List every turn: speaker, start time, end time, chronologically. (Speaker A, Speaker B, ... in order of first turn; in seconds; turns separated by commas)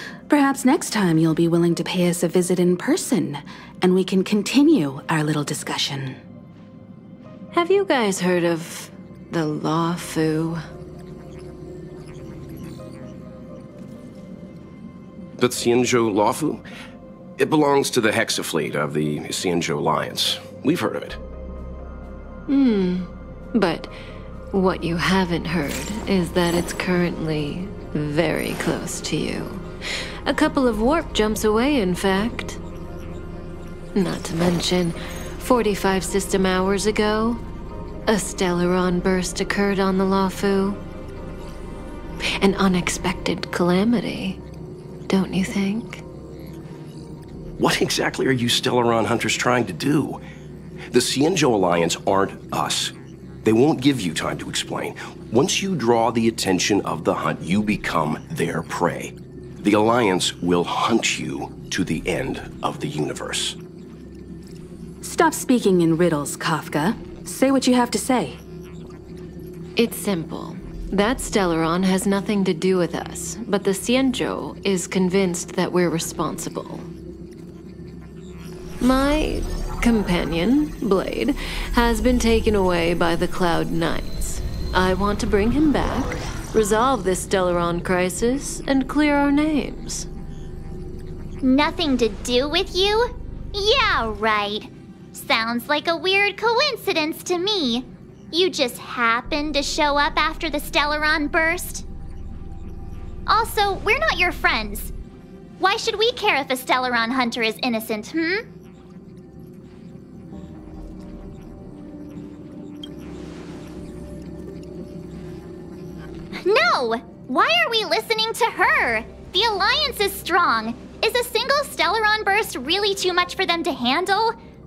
Speaker A: 0.3-6.2, Speaker B: 7.5-10.6, Speaker C: 15.4-16.6, Speaker C: 17.4-21.2, Speaker B: 22.5-23.9, Speaker B: 24.5-29.7, Speaker B: 30.2-32.6, Speaker B: 33.9-37.4, Speaker B: 38.1-40.8, Speaker B: 42.4-44.4, Speaker B: 45.1-46.0, Speaker C: 47.6-50.2, Speaker C: 50.9-52.9, Speaker C: 53.4-63.5, Speaker A: 65.0-68.4, Speaker B: 69.8-76.9, Speaker B: 78.8-90.1, Speaker D: 91.4-101.8, Speaker D: 103.3-104.9, Speaker D: 105.6-108.4, Speaker D: 116.4-124.3